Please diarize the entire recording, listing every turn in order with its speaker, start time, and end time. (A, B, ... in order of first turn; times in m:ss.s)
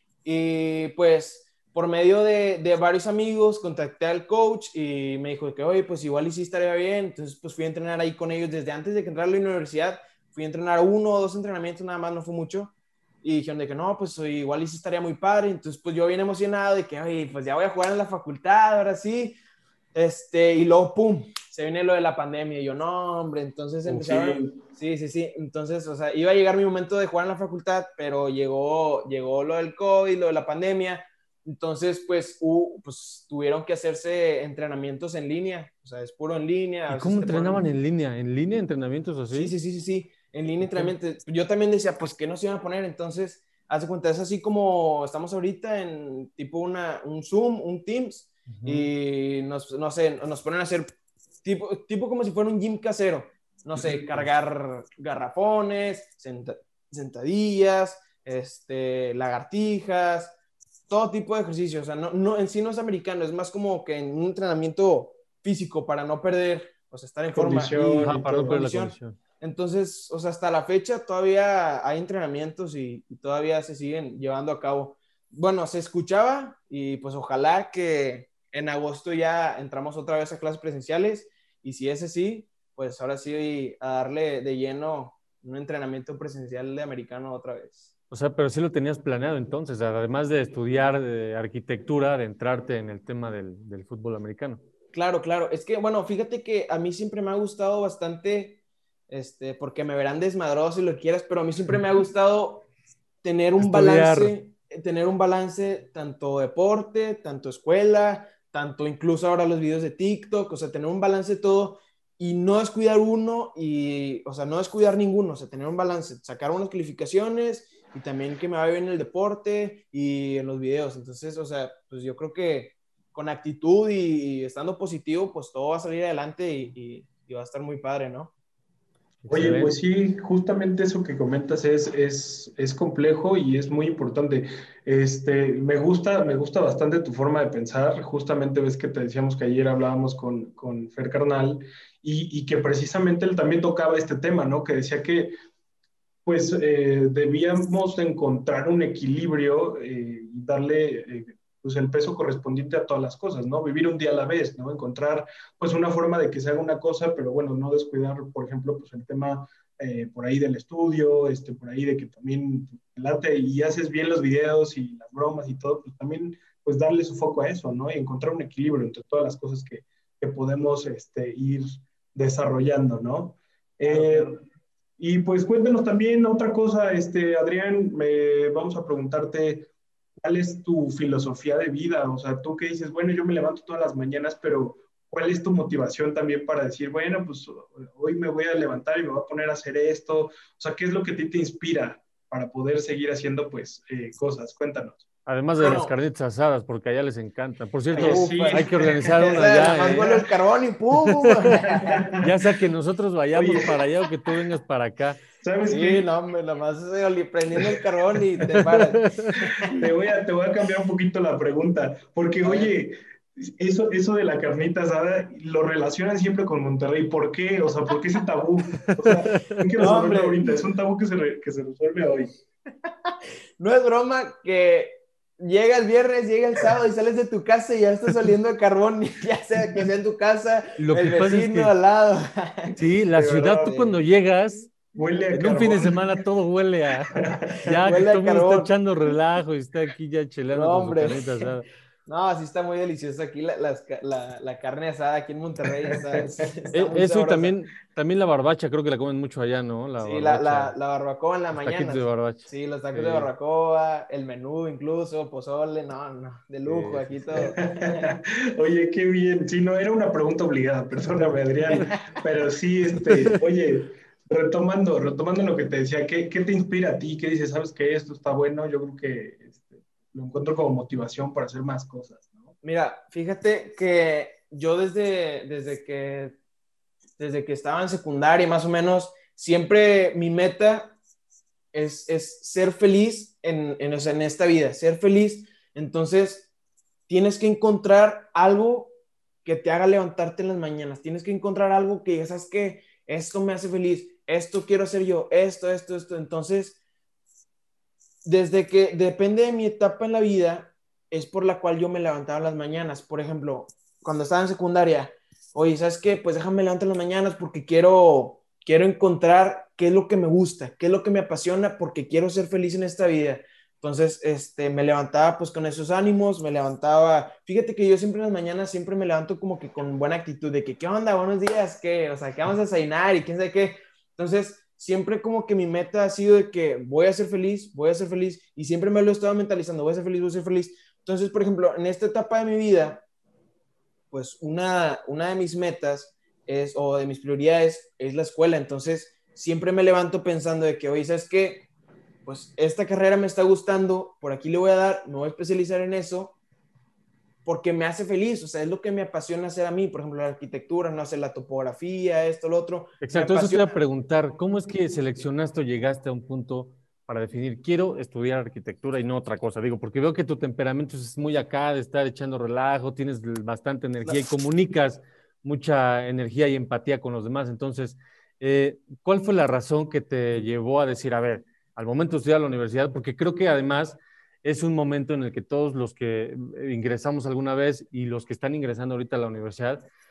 0:00.2-0:19.4 A
0:19.9-0:37.7 A
0:23.8-0:24.6 B
0:36.9-0:39.5 C
0:39.3-0:50.9 A
0:48.5-0:48.9 C
0:51.4-1:00.3 A
1:00.9-1:27.9 A
1:07.3-1:08.6 B
1:08.0-1:09.2 C
1:28.1-1:34.6 C
1:34.9-1:38.6 A
1:39.1-1:42.7 A
1:43.2-2:08.3 A
1:43.6-1:44.3 C
2:09.2-2:09.7 C
2:09.3-2:25.3 B
2:26.3-2:54.4 B
2:53.8-2:54.4 A
2:55.0-2:59.7 B
3:00.2-3:15.1 B
3:15.3-3:20.3 C
3:15.6-3:15.9 A
3:17.9-3:22.1 A
3:18.0-3:19.5 B
3:21.0-3:21.6 C
3:21.7-3:22.4 B
3:22.2-3:25.2 C
3:23.3-3:23.8 B
3:25.4-3:26.1 B
3:25.7-3:29.8 A
3:28.7-3:29.4 C
3:29.6-3:42.3 B
3:32.4-3:32.8 A
3:39.0-3:39.7 C
3:39.8-3:40.6 A
3:43.1-3:52.8 A
3:50.8-3:51.7 C
3:52.8-3:54.8 C
3:53.2-3:53.8 B
3:53.6-3:53.9 A
3:54.9-3:56.2 B
3:55.3-4:01.7 C
3:57.2-3:57.8 B
3:57.8-3:58.7 A
4:00.5-4:01.4 A
4:02.1-4:07.6 A
4:06.7-4:10.8 C
4:10.0-4:18.1 A
4:11.5-4:13.3 C
4:16.6-4:17.5 C
4:17.6-4:32.5 B
4:23.1-4:23.4 C
4:32.6-4:36.4 A
4:37.2-4:41.0 A
4:41.7-4:46.5 A
4:47.1-4:48.9 A
4:49.4-4:56.8 A
4:58.2-5:33.0 A
5:34.1-5:41.7 A
5:42.2-5:46.4 A
5:47.4-5:53.8 A
5:53.0-6:19.8 C